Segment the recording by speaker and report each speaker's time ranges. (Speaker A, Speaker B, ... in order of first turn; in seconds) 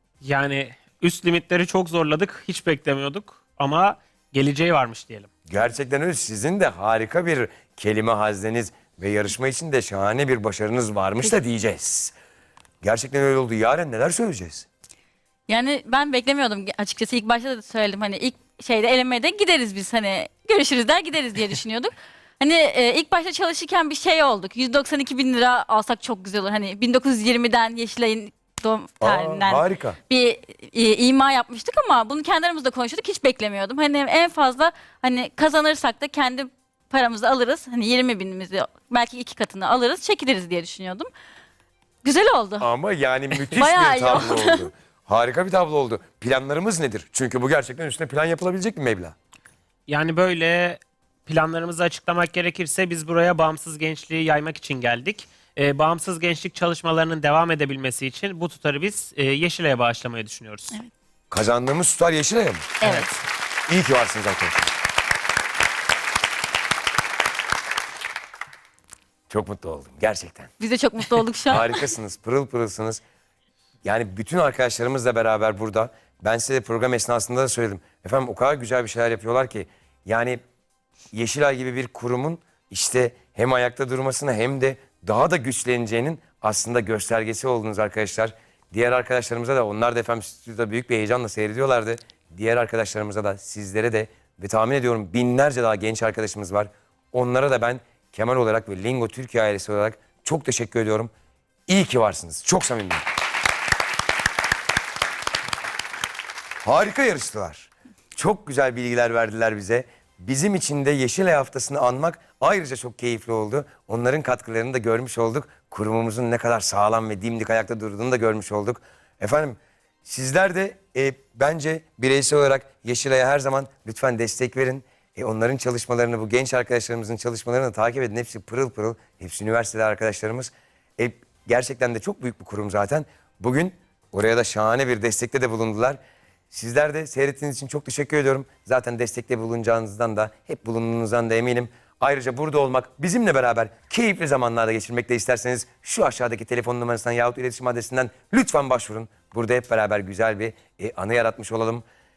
Speaker A: 0.2-5.3, 49.9-60.8
Speaker B: 5.5-12.2, 12.8-14.7, 29.0-30.0, 42.6-49.2, 61.3-62.7, 63.7-64.7, 69.3-70.5, 71.5-73.0, 73.8-80.4, 81.1-101.1, 101.7-103.0, 106.6-136.0, 136.5-151.9
Speaker C: 15.5-41.1, 42.0-42.7, 43.4-44.7, 62.8-63.2, 70.6-71.8